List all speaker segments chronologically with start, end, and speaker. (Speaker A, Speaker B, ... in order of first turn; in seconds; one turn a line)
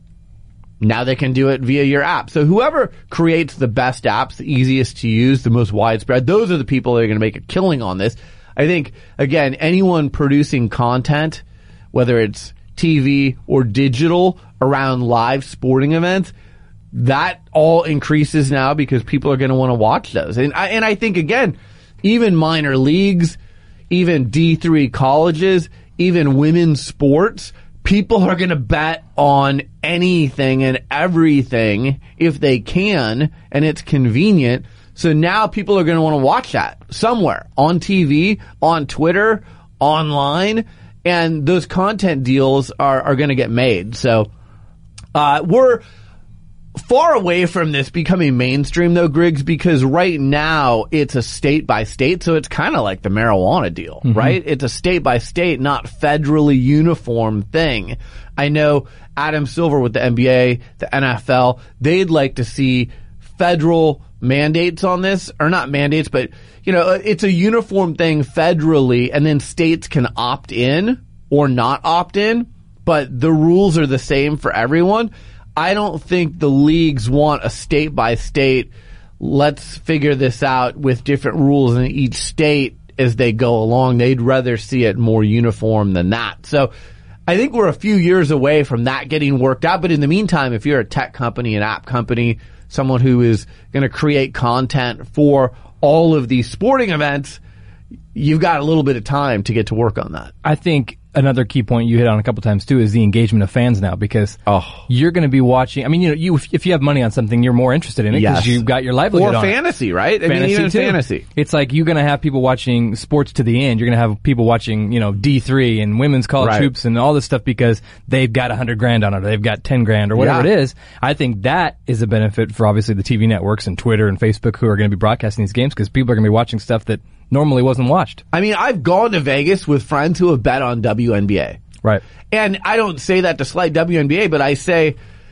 Speaker A: 0.8-16.3
Speaker A: 16.9-23.4
Speaker A: 23.9-44.3
Speaker A: 45.1-45.8
Speaker A: 46.8-86.7
Speaker B: 54.1-54.4
Speaker A: 87.3-97.4
Speaker A: 98.1-100.3
Speaker B: 100.4-109.5
Speaker A: 104.5-104.8
Speaker A: 108.1-111.2
Speaker B: 110.2-128.2
Speaker A: 116.4-116.7
Speaker A: 120.1-120.5
Speaker A: 128.3-131.6
Speaker A: 132.3-134.9